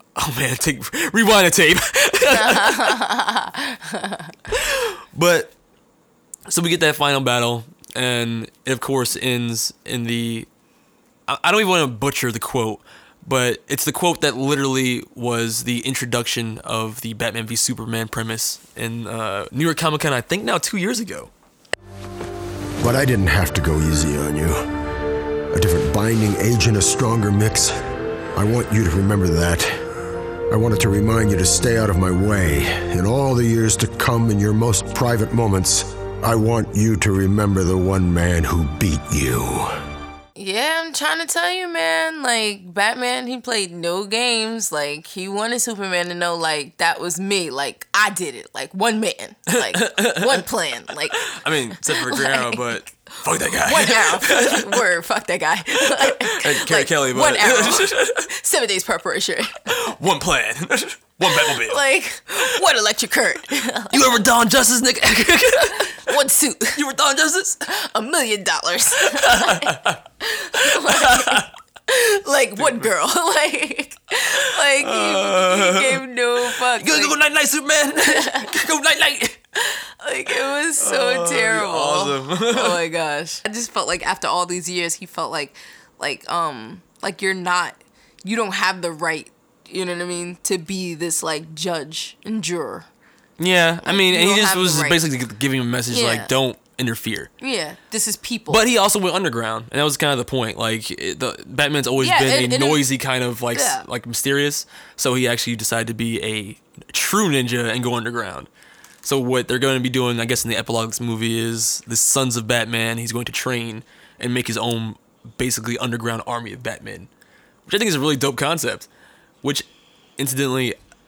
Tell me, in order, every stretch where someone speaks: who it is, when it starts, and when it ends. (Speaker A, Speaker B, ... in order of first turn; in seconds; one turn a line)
Speaker A: 0.1-3.0
Speaker B: 2.2-4.3
Speaker A: 4.5-5.5
Speaker A: 6.5-10.5
Speaker A: 11.3-21.3
Speaker C: 22.8-24.6
Speaker C: 25.5-27.7
Speaker C: 28.3-29.8
Speaker C: 30.5-39.7
Speaker B: 40.4-51.2
Speaker A: 49.5-50.4
Speaker A: 51.1-54.8
Speaker B: 51.8-59.8
Speaker A: 55.8-58.3
Speaker A: 59.6-61.8
Speaker B: 61.2-64.2
Speaker A: 63.9-66.1
Speaker B: 66.0-66.8
Speaker A: 66.7-67.6
Speaker B: 67.7-77.2
Speaker A: 69.0-70.0
Speaker A: 70.6-71.5
Speaker A: 74.6-76.0
Speaker A: 76.5-79.4
Speaker B: 78.0-78.5
Speaker B: 79.6-92.9
Speaker A: 80.8-82.8
Speaker A: 93.4-97.3
Speaker B: 93.8-95.0
Speaker B: 95.9-96.3
Speaker B: 97.4-98.6
Speaker A: 98.5-108.5
Speaker B: 102.0-102.8
Speaker B: 103.5-103.8
Speaker A: 109.0-117.1
Speaker A: 117.7-118.9
Speaker A: 120.2-120.8